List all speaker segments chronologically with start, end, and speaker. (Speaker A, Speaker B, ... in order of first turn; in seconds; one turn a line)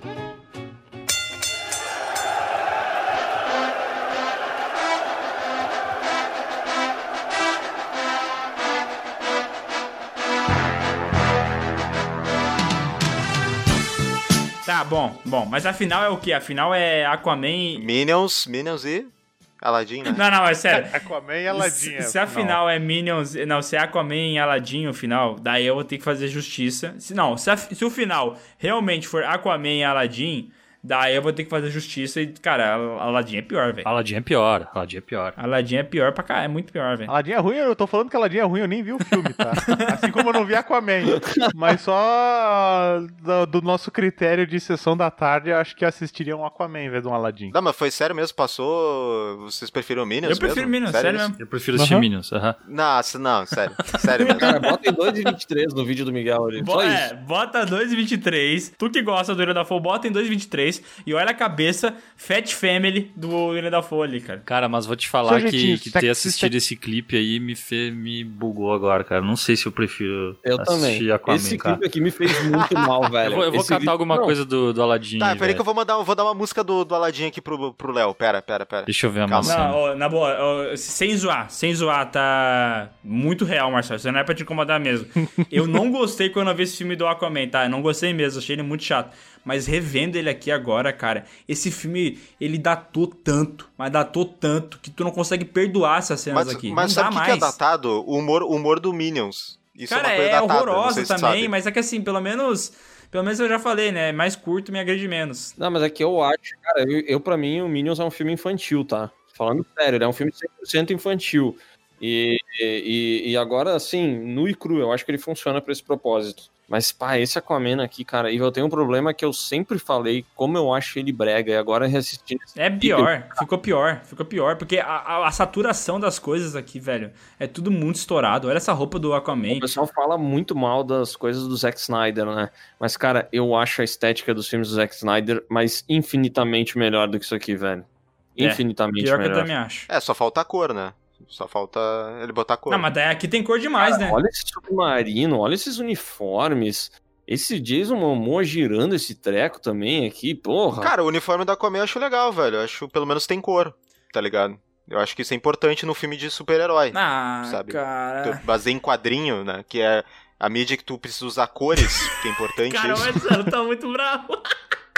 Speaker A: 14.7-17.9
Speaker B: 17.8-20.2
Speaker A: 20.1-21.0
Speaker C: 20.7-22.6
Speaker A: 21.5-33.9
Speaker D: 33.9-35.4
Speaker A: 35.4-37.1
Speaker C: 37.1-47.5
Speaker B: 47.5-51.3
Speaker A: 50.2-51.4
Speaker D: 51.4-52.6
Speaker C: 51.7-52.1
Speaker B: 52.6-54.5
Speaker A: 54.1-54.5
Speaker E: 54.4-57.1
Speaker A: 56.6-64.4
Speaker D: 64.5-71.8
Speaker C: 65.2-66.5
Speaker E: 70.4-74.3
Speaker D: 73.2-75.6
Speaker B: 75.2-79.6
Speaker D: 78.9-79.8
Speaker A: 79.4-97.6
Speaker B: 96.3-101.5
Speaker A: 99.9-105.5
Speaker E: 105.6-123.4
Speaker A: 122.6-129.7
Speaker E: 129.5-139.5
Speaker A: 138.4-139.9
Speaker B: 139.9-142.9
Speaker A: 142.7-144.2
Speaker E: 143.8-150.9
Speaker B: 150.8-163.3
Speaker A: 156.9-158.4
Speaker A: 162.7-164.4